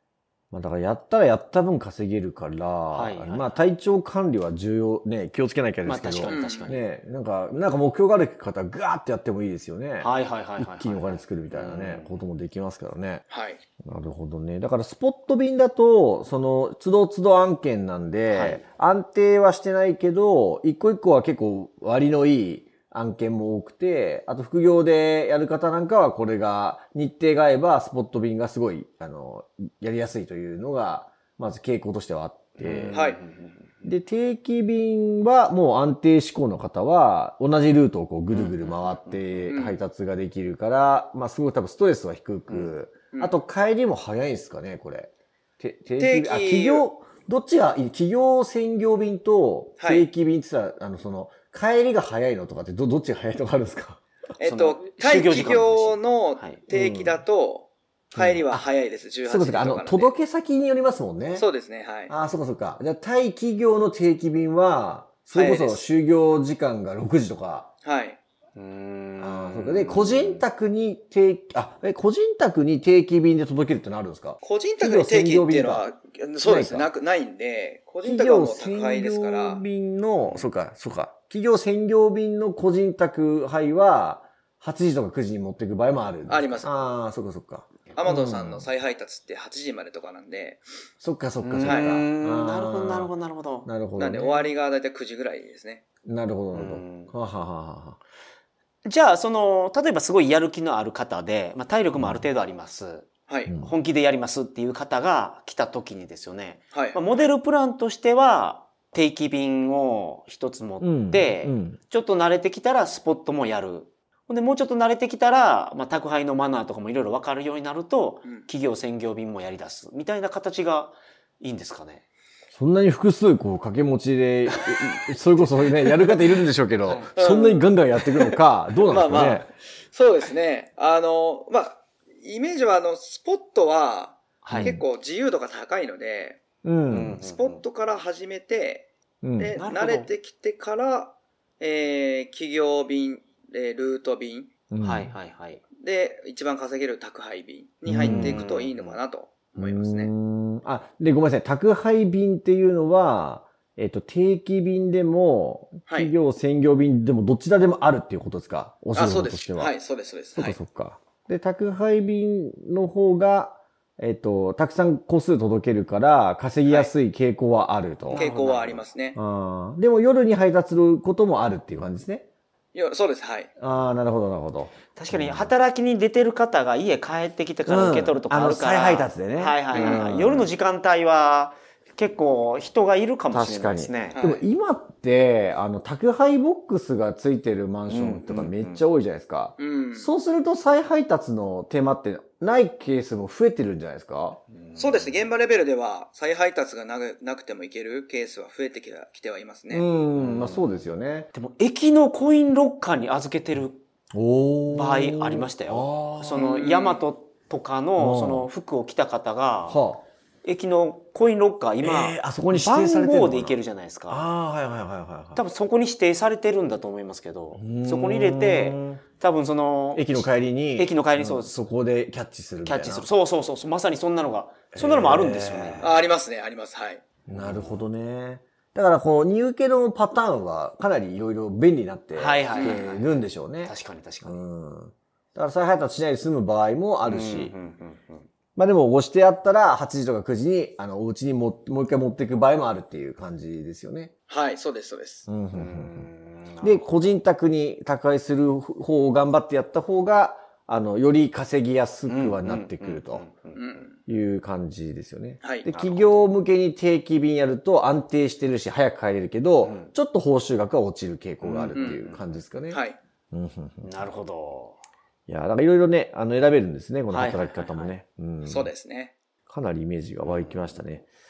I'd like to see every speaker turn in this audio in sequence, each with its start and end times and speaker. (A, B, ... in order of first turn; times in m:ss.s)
0:00.5-0:13.2 A
0:02.9-0:03.6 B
0:05.8-0:06.8 B
0:06.2-0:06.8 C
0:10.0-0:12.2 B
0:13.3-0:13.6 C
0:13.8-0:33.0 A
0:18.3-0:18.6 B
0:32.6-0:33.7 B
0:32.9-0:33.2 C
0:33.8-0:54.0 A
0:38.3-0:39.5 B
0:39.5-0:39.8 C
0:42.5-0:42.7 B
0:46.0-0:46.9 C
0:49.8-0:50.1 C
0:54.4-1:00.1 C
0:54.4-0:56.6 B
0:56.7-0:57.2 A
0:58.1-0:58.6 A
0:59.2-1:01.4 A
1:01.3-1:02.1 C
1:02.1-1:07.7 A
1:05.3-1:05.9 C
1:07.8-1:08.2 C
1:08.6-1:10.4 B
1:09.2-1:15.9 A
1:14.4-1:19.6 C
1:16.4-1:16.9 A
1:18.0-1:28.7 A
1:20.2-1:20.5 B
1:26.3-1:26.7 C
1:27.9-1:30.6 C
1:31.0-1:33.1 A
1:31.4-1:33.7 B
1:31.6-1:32.0 C
1:33.6-1:34.5 A
1:34.0-1:35.8 C
1:36.0-1:38.0 A
1:36.5-1:37.1 B
1:38.8-1:43.1 B
1:41.9-1:42.3 A
1:43.3-1:43.5 C
1:43.5-1:43.7 A
1:43.6-2:02.0 B
1:46.7-1:47.0 C
1:50.8-1:51.8 A
2:02.5-2:09.5 A
2:04.5-2:04.8 B
2:07.2-2:07.7 C
2:08.8-2:16.4 C
2:14.4-2:14.8 B
2:14.5-2:14.8 A
2:16.6-2:17.2 A
2:16.9-2:17.6 B
2:17.2-2:24.5 C
2:19.2-2:19.6 A
2:19.5-2:20.1 B
2:24.7-2:25.1 A
2:24.8-2:25.6 B
2:25.8-2:30.1 C
2:27.8-2:28.4 A
2:28.0-2:29.0 B
2:29.6-2:39.7 A
2:35.9-2:36.1 C
2:38.9-2:40.6 C
2:40.3-2:48.2 A
2:46.6-2:46.9 C
2:48.1-2:48.9 B
2:48.1-2:49.2 C
2:49.1-2:52.3 A
2:52.7-2:53.5 C
2:53.6-2:55.5 A
2:54.9-3:04.2 B
2:57.7-3:00.5 A
2:59.7-3:00.1 C
3:03.3-3:14.4 A
3:04.1-3:04.4 C
3:07.9-3:08.8 B
3:09.6-3:10.1 C
3:14.5-3:15.2 B
3:14.8-3:19.8 C
3:19.7-3:21.3 A
3:20.1-3:20.8 B
3:21.3-3:23.8 B
3:24.1-3:26.6 A
3:24.7-3:29.8 B
3:26.4-3:27.0 C
3:28.0-3:28.5 A
3:29.7-3:30.0 A
3:30.4-3:34.3 B
3:31.8-3:35.4 A
3:35.3-3:41.6 B
3:37.5-3:39.0 A
3:39.9-3:43.1 A
3:42.6-3:46.0 B
3:44.7-3:45.9 A
3:45.8-3:47.0 C
3:47.3-3:47.8 B
3:47.3-3:57.5 A
3:52.1-3:54.4 B
3:52.5-3:52.8 C
3:57.0-3:58.3 B
3:58.6-4:04.1 A
4:04.3-4:05.3 C
4:05.3-4:06.1 A
4:05.5-4:06.9 B
4:06.6-4:13.3 A
4:12.1-4:13.6 B
4:13.5-4:14.0 C
4:14.0-4:22.8 A
4:15.7-4:16.2 B
4:19.6-4:19.9 B
4:21.4-4:22.4 B
4:22.7-4:23.0 C
4:23.3-4:23.9 A
4:23.8-4:24.8 B
4:25.3-4:28.7 A
4:27.1-4:27.9 B
4:28.4-4:29.1 C
4:29.5-4:31.1 A
4:30.2-4:30.7 B